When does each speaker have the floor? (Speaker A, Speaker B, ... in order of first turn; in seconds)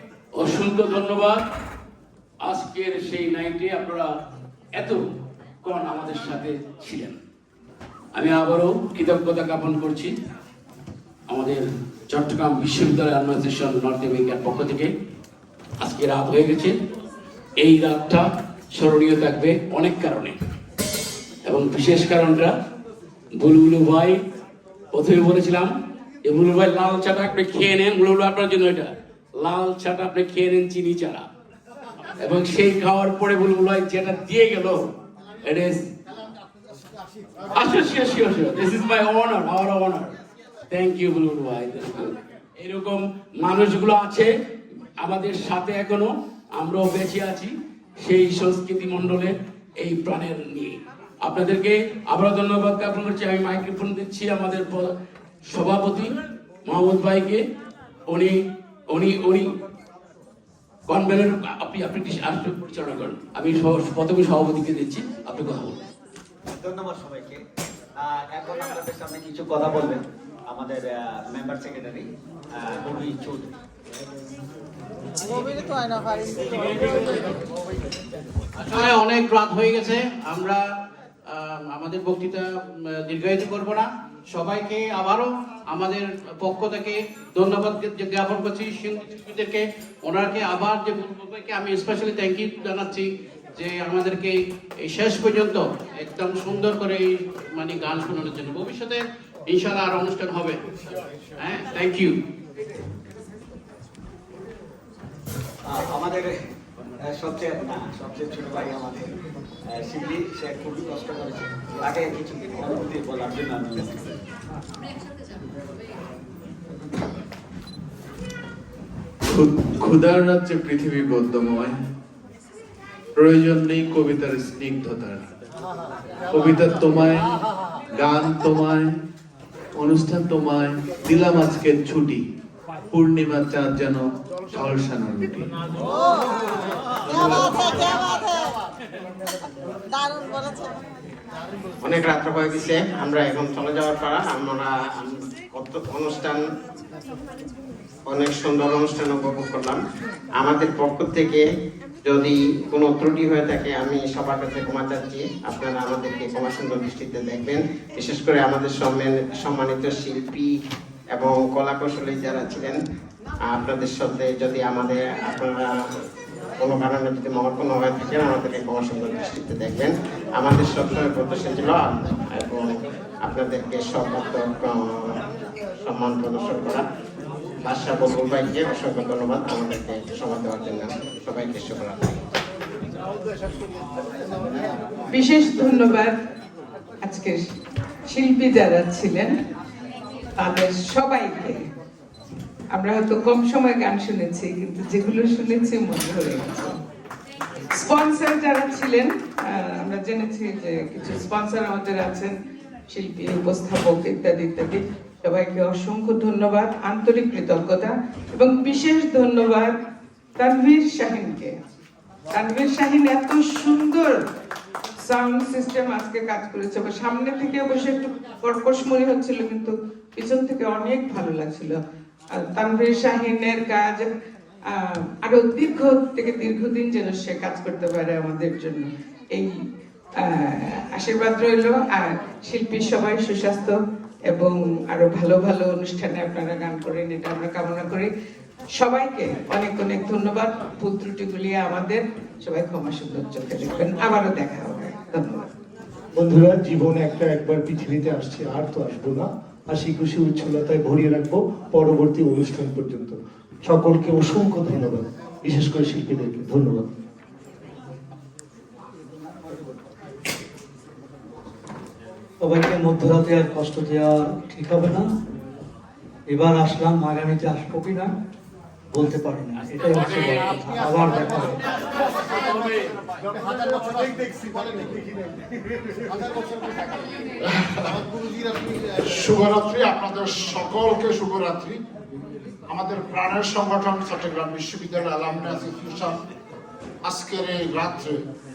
Speaker A: 0.4-1.4, 2.4-4.1, 4.8-5.0, 5.6-7.2, 8.1-10.1, 11.3-14.9, 15.8-16.8, 17.6-20.3, 21.4-22.5, 23.4-24.2, 24.9-25.7, 26.2-31.2, 32.2-34.8, 35.4-35.8, 37.5-40.1, 40.7-44.3, 45.0-54.9, 55.5-56.1, 56.6-57.4, 58.1-58.3, 58.9-59.5, 60.9-65.8
Speaker B: 66.5-67.4, 68.0-72.0, 72.6-73.5, 105.7-106.3, 107.1-109.1, 109.7-113.9, 259.2-259.8
Speaker C: 78.7-80.6, 81.3-82.5, 83.0-100.6, 101.4-102.1
Speaker D: 119.3-121.7, 123.2-125.2, 126.3-127.3, 128.0-128.9, 129.8-132.2, 132.9-134.0, 134.5-135.5, 137.1-137.7
Speaker E: 141.8-146.4, 148.1-149.8, 150.4-151.4, 152.1-160.5, 161.1-162.8, 163.5-165.7, 166.6-175.2, 175.8-176.8, 177.6-182.2
Speaker F: 185.1-186.1, 187.0-187.4, 188.1-189.3, 190.4-191.6, 192.7-196.7, 197.8-202.3, 202.9-209.7, 210.4-211.5, 212.3-214.2, 215.0-221.8, 222.3-224.1, 225.2-229.5, 230.3-233.7, 234.3-238.1, 238.8-245.4
Speaker G: 246.2-256.9
Speaker H: 262.4-265.1, 266.3-268.1, 268.9-271.6
Speaker I: 277.4-278.0, 279.0-281.8, 282.7-286.2, 287.0-288.2